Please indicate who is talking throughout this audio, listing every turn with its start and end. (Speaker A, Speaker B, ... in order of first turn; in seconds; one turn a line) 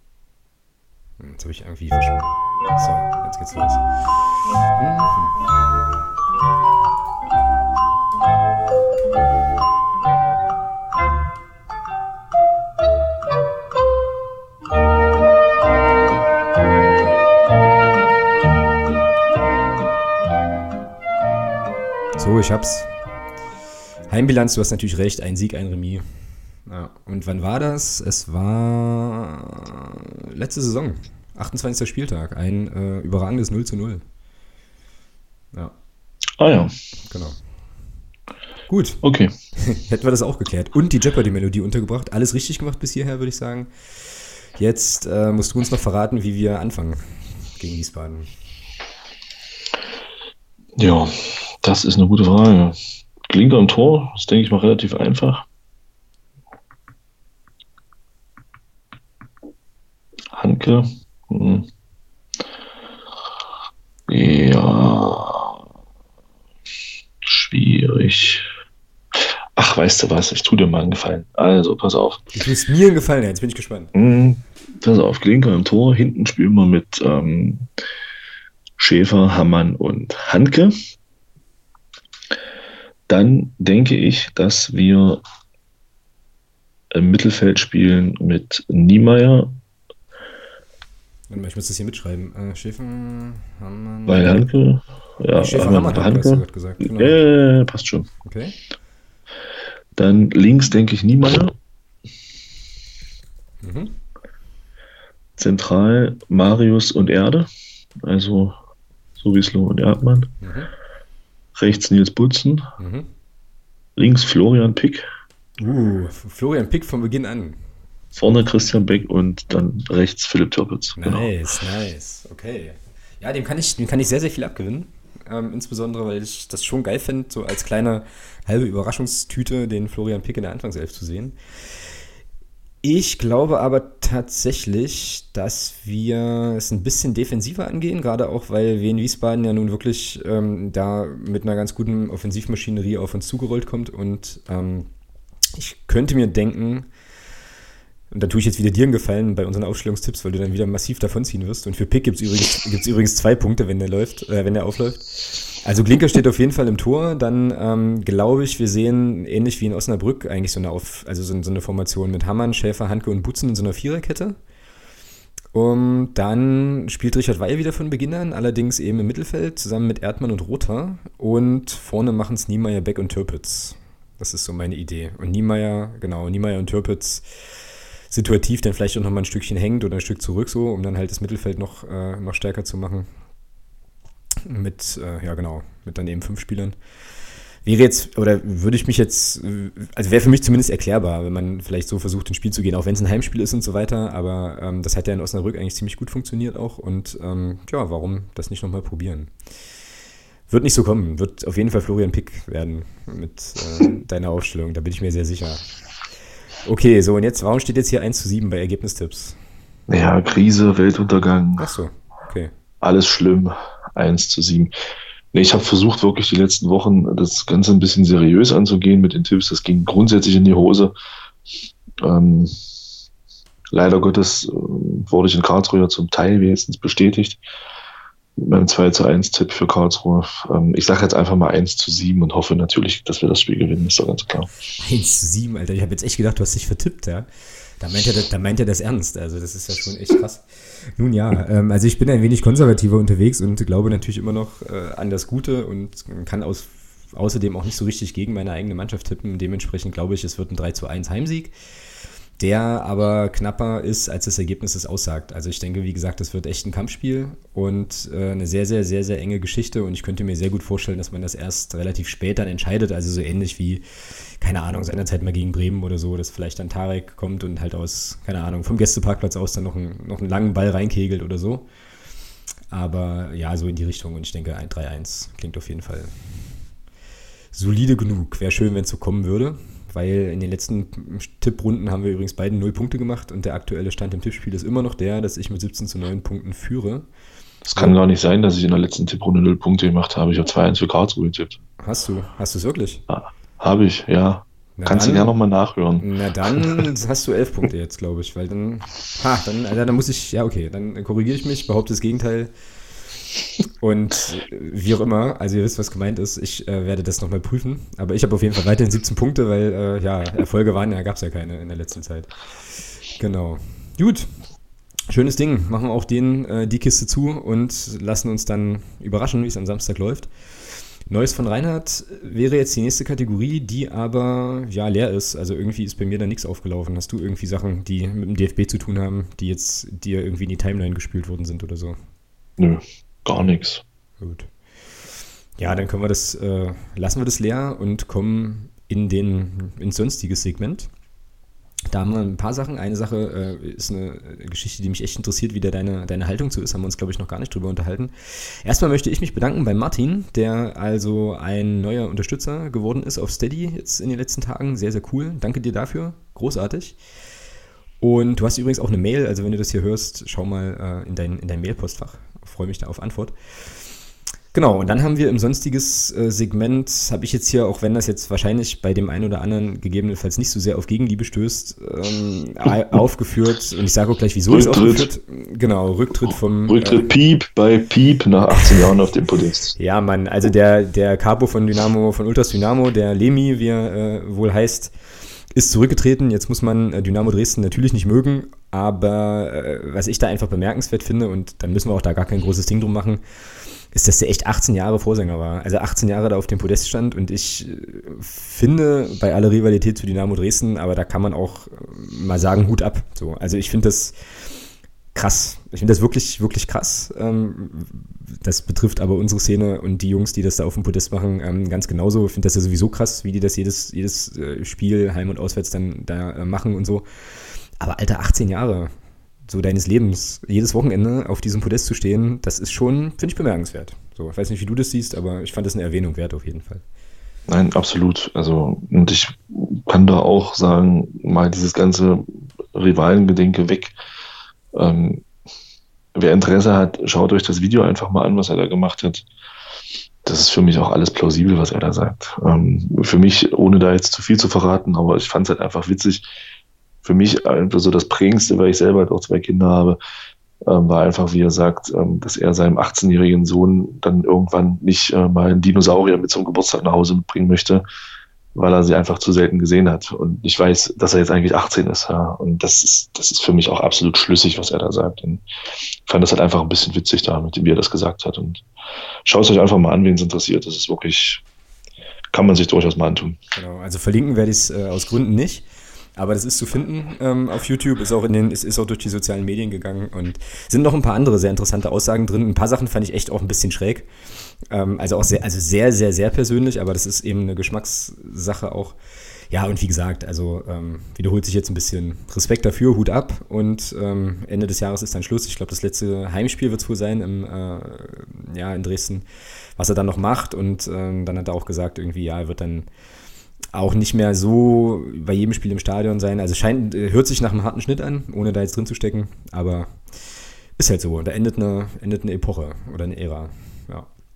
Speaker A: 1.2-3.8
Speaker A: 4.8-5.4
Speaker A: 22.2-22.9
Speaker A: 24.1-26.0
Speaker A: 26.7-34.0
Speaker B: 36.4-36.7
Speaker A: 37.1-37.4
Speaker A: 38.7-39.0
Speaker B: 39.0-39.3
Speaker A: 39.6-48.3
Speaker B: 50.8-52.8
Speaker B: 53.3-55.5
Speaker B: 60.3-61.7
Speaker B: 64.1-65.6
Speaker B: 67.2-68.5
Speaker B: 69.5-72.3
Speaker A: 72.3-73.9
Speaker B: 73.9-77.7
Speaker B: 78.8-80.7
Speaker B: 83.1-85.2
Speaker B: 86.9-89.5
Speaker A: 91.3-94.5
Speaker B: 94.1-98.1
Speaker A: 95.3-97.2
Speaker A: 98.2-98.6
Speaker B: 100.0-101.5
Speaker A: 103.6-104.0
Speaker B: 105.4-107.5
Speaker B: 108.0-108.6
Speaker B: 109.2-110.3
Speaker A: 110.4-110.7
Speaker B: 111.5-112.7
Speaker A: 112.8-113.1
Speaker B: 114.0-115.0
Speaker A: 115.6-117.6
Speaker B: 118.2-121.3
Speaker A: 121.0-131.4
Speaker A: 132.8-144.9
Speaker A: 145.5-146.9
Speaker A: 148.1-164.3
Speaker A: 165.5-177.2
Speaker A: 178.1-183.1
Speaker A: 184.4-186.8
Speaker A: 187.6-199.3
Speaker A: 200.5-205.7
Speaker A: 206.6-209.4
Speaker B: 209.9-211.7
Speaker A: 211.6-212.5
Speaker B: 212.8-214.7
Speaker B: 215.3-220.9
Speaker B: 222.0-222.5
Speaker B: 223.7-227.4
Speaker B: 228.4-234.5
Speaker A: 234.8-237.3
Speaker A: 237.8-240.4
Speaker A: 240.9-251.5
Speaker A: 252.4-263.8
Speaker A: 264.4-271.7
Speaker A: 272.7-276.1
Speaker A: 277.5-287.0
Speaker B: 287.7-291.6
Speaker A: 287.7-288.0
Speaker A: 291.8-293.0
Speaker B: 293.1-296.8
Speaker A: 294.8-295.3
Speaker A: 296.0-302.5
Speaker A: 303.8-312.3
Speaker A: 313.1-314.3
Speaker A: 315.1-320.3
Speaker A: 321.1-332.0
Speaker B: 332.6-333.8
Speaker A: 334.2-334.5
Speaker A: 335.6-340.9
Speaker A: 341.9-348.1
Speaker A: 348.6-357.0
Speaker A: 358.0-363.3
Speaker A: 364.5-377.1
Speaker B: 374.5-375.1
Speaker B: 376.7-379.7
Speaker A: 378.5-378.9
Speaker A: 379.8-384.9
Speaker A: 385.5-393.2
Speaker A: 393.9-404.1
Speaker A: 405.1-417.1
Speaker A: 417.8-418.9
Speaker A: 419.5-426.8
Speaker B: 427.5-433.9
Speaker B: 434.7-435.2
Speaker B: 436.1-439.2
Speaker B: 440.2-446.2
Speaker B: 447.0-450.0
Speaker B: 450.6-457.8
Speaker B: 458.5-465.4
Speaker B: 466.1-468.6
Speaker B: 469.2-471.4
Speaker B: 472.3-473.4
Speaker A: 473.5-484.1
Speaker A: 484.7-489.0
Speaker A: 489.5-499.2
Speaker A: 499.8-502.9
Speaker A: 503.7-510.0
Speaker A: 510.8-514.1